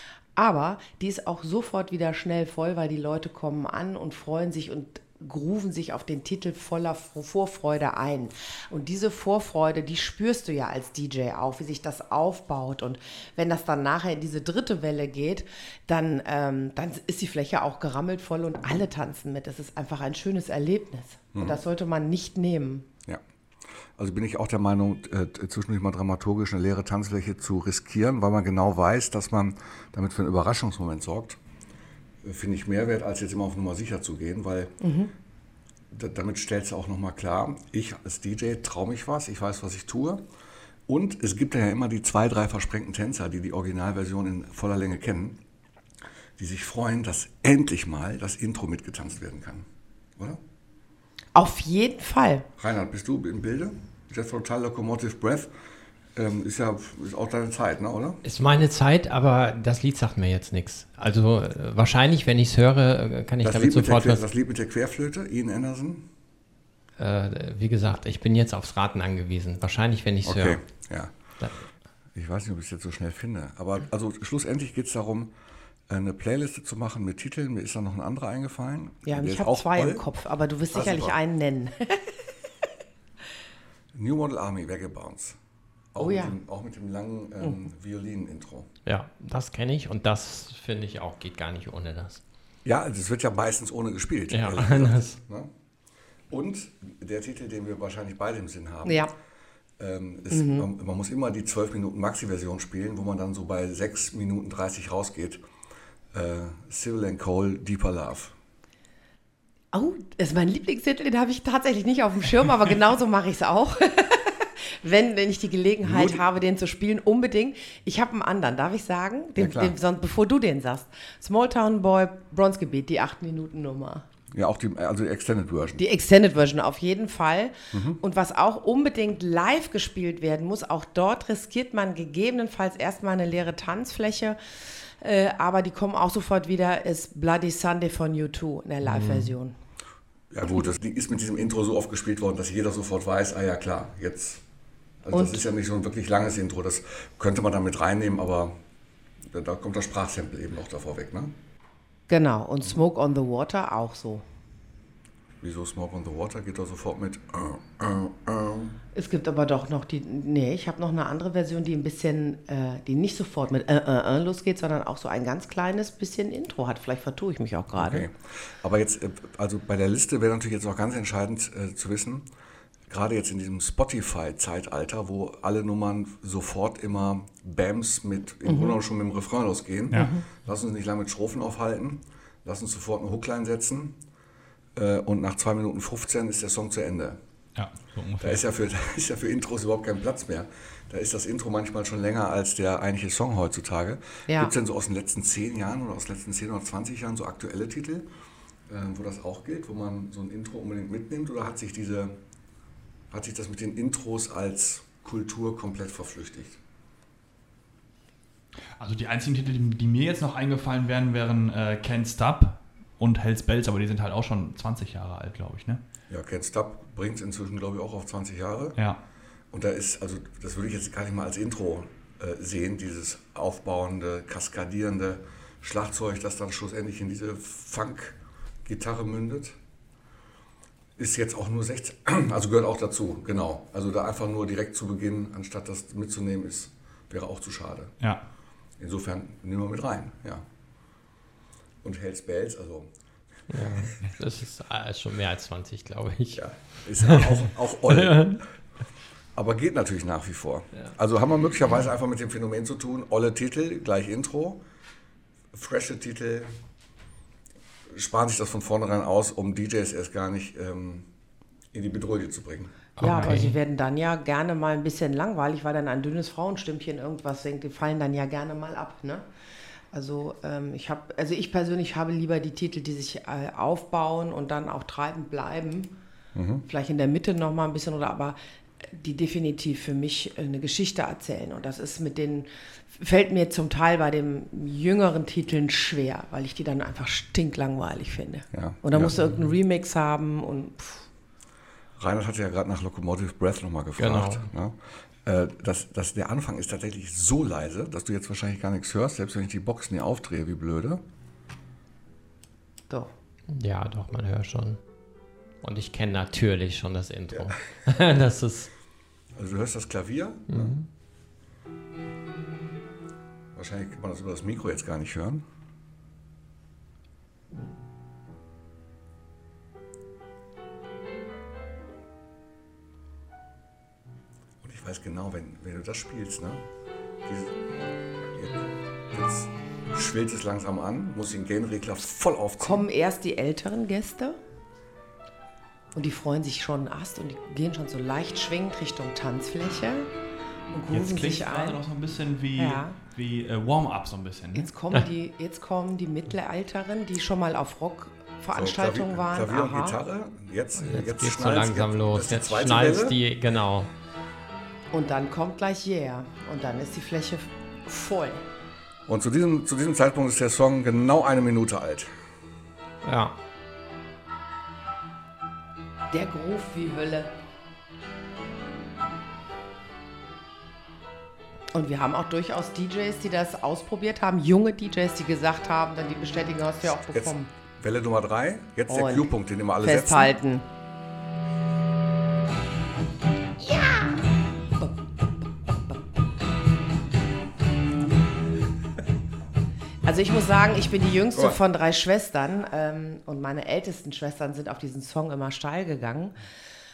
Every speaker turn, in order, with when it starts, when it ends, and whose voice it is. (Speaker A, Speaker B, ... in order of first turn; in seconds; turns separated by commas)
Speaker A: 0.4-22.9, Speaker B: 24.0-31.4, Speaker B: 32.2-34.7, Speaker A: 34.8-35.1, Speaker B: 35.9-40.2, Speaker B: 40.9-45.4, Speaker B: 46.4-50.4, Speaker A: 51.4-52.5, Speaker B: 52.6-55.5, Speaker B: 56.2-58.2, Speaker C: 58.2-64.2, Speaker B: 63.4-66.1, Speaker C: 67.0-70.6, Speaker B: 70.2-71.1, Speaker C: 71.4-71.7, Speaker B: 72.2-75.3, Speaker B: 75.9-80.0, Speaker A: 79.1-82.2, Speaker B: 80.7-81.2, Speaker B: 83.9-85.4, Speaker B: 85.9-88.7, Speaker A: 86.0-86.4, Speaker C: 88.9-92.2, Speaker B: 92.7-95.5, Speaker C: 94.3-95.2, Speaker B: 96.3-99.1, Speaker A: 98.8-99.1, Speaker B: 99.8-105.4, Speaker A: 100.3-100.7, Speaker B: 106.1-108.3, Speaker A: 109.7-124.0, Speaker B: 115.8-116.2, Speaker B: 119.4-119.8, Speaker B: 124.3-125.8, Speaker A: 125.8-134.4, Speaker B: 127.7-128.0, Speaker A: 135.0-139.5, Speaker C: 138.8-139.3, Speaker B: 140.3-144.4, Speaker B: 145.0-148.6, Speaker A: 145.1-145.5, Speaker B: 149.3-151.3, Speaker A: 152.1-154.2, Speaker B: 155.4-158.8, Speaker A: 158.9-168.1, Speaker B: 167.7-172.3, Speaker B: 172.9-184.0, Speaker A: 178.4-178.8, Speaker A: 180.0-180.2, Speaker B: 184.8-187.2, Speaker D: 187.6-188.4, Speaker B: 188.2-198.1, Speaker A: 194.3-194.5, Speaker B: 198.7-202.2, Speaker B: 203.1-206.6, Speaker D: 208.8-215.8, Speaker B: 216.1-218.8, Speaker B: 219.5-229.6, Speaker B: 231.0-237.9, Speaker D: 238.0-238.2, Speaker B: 238.8-240.4, Speaker B: 241.8-242.9, Speaker C: 243.5-246.4, Speaker B: 246.3-248.4, Speaker C: 246.9-248.4, Speaker B: 249.3-254.6, Speaker B: 255.5-256.5, Speaker B: 257.9-261.1, Speaker B: 261.7-262.8, Speaker C: 263.0-263.6, Speaker A: 263.0-269.2, Speaker A: 269.9-275.9, Speaker B: 276.4-276.6, Speaker A: 276.7-291.1, Speaker B: 288.5-289.1, Speaker B: 292.0-301.0, Speaker C: 294.0-294.5, Speaker C: 303.5-304.8, Speaker C: 305.6-308.7, Speaker B: 309.4-310.8, Speaker C: 310.5-310.9, Speaker B: 313.6-315.4, Speaker B: 324.6-326.6, Speaker B: 327.2-327.6, Speaker B: 328.3-332.9, Speaker A: 332.6-334.4, Speaker A: 335.9-340.1, Speaker A: 340.7-341.8, Speaker D: 340.9-344.7, Speaker A: 342.6-343.0, Speaker A: 344.5-350.0, Speaker B: 348.5-353.2, Speaker C: 350.8-353.9, Speaker A: 354.9-358.4, Speaker B: 359.1-362.1, Speaker C: 363.0-363.4, Speaker A: 366.1-367.3, Speaker A: 371.7-377.5, Speaker B: 377.1-380.3, Speaker A: 378.9-380.7, Speaker A: 390.0-396.4, Speaker B: 391.3-391.6